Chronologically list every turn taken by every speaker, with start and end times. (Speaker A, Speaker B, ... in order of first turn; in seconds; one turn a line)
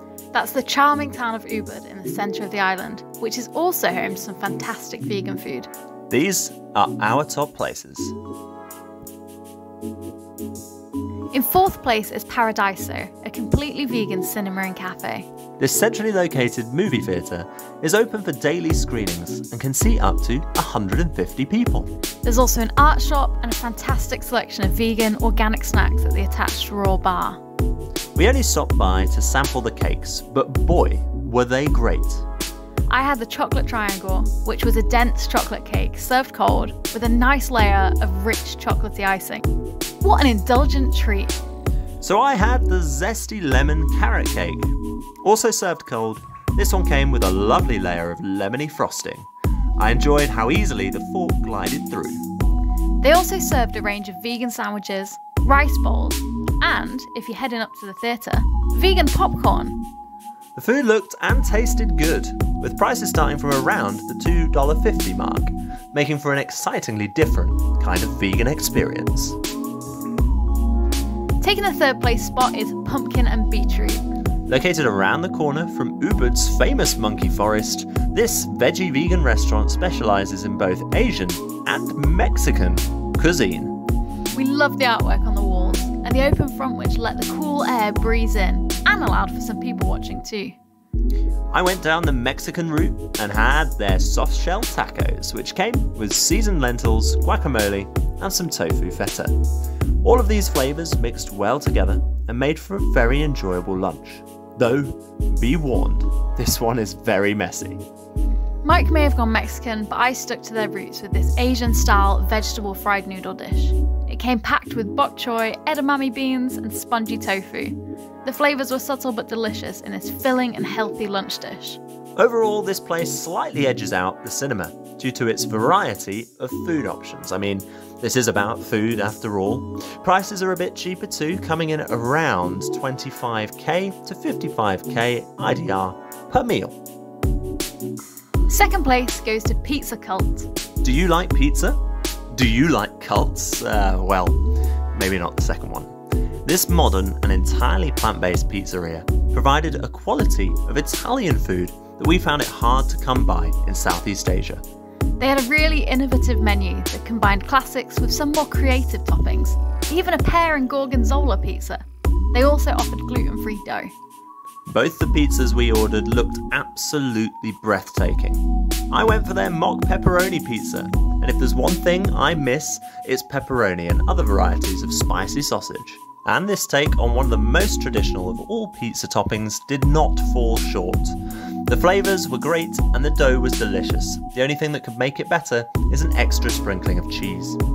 Speaker A: 0.3-5.7
Speaker B: 6.1-8.2
Speaker A: 11.3-15.3
Speaker B: 15.6-21.9
Speaker A: 22.2-27.4
Speaker B: 28.1-32.2
Speaker A: 32.9-39.5
Speaker A: 40.0-41.4
Speaker B: 42.0-52.2
Speaker A: 53.0-59.8
Speaker B: 60.5-69.4
Speaker A: 71.4-74.0
Speaker B: 74.5-83.8
Speaker A: 84.3-90.6
Speaker B: 91.5-99.3
Speaker B: 100.0-107.8
Speaker A: 108.6-121.8
Speaker B: 122.2-136.8
Speaker A: 138.5-140.5
Speaker B: 140.8-141.8
Speaker B: 142.3-144.4
Speaker B: 144.9-145.9
Speaker B: 146.4-154.6
Speaker A: 155.2-161.8
Speaker A: 162.3-163.9
Speaker B: 164.7-181.2
Speaker B: 181.7-187.6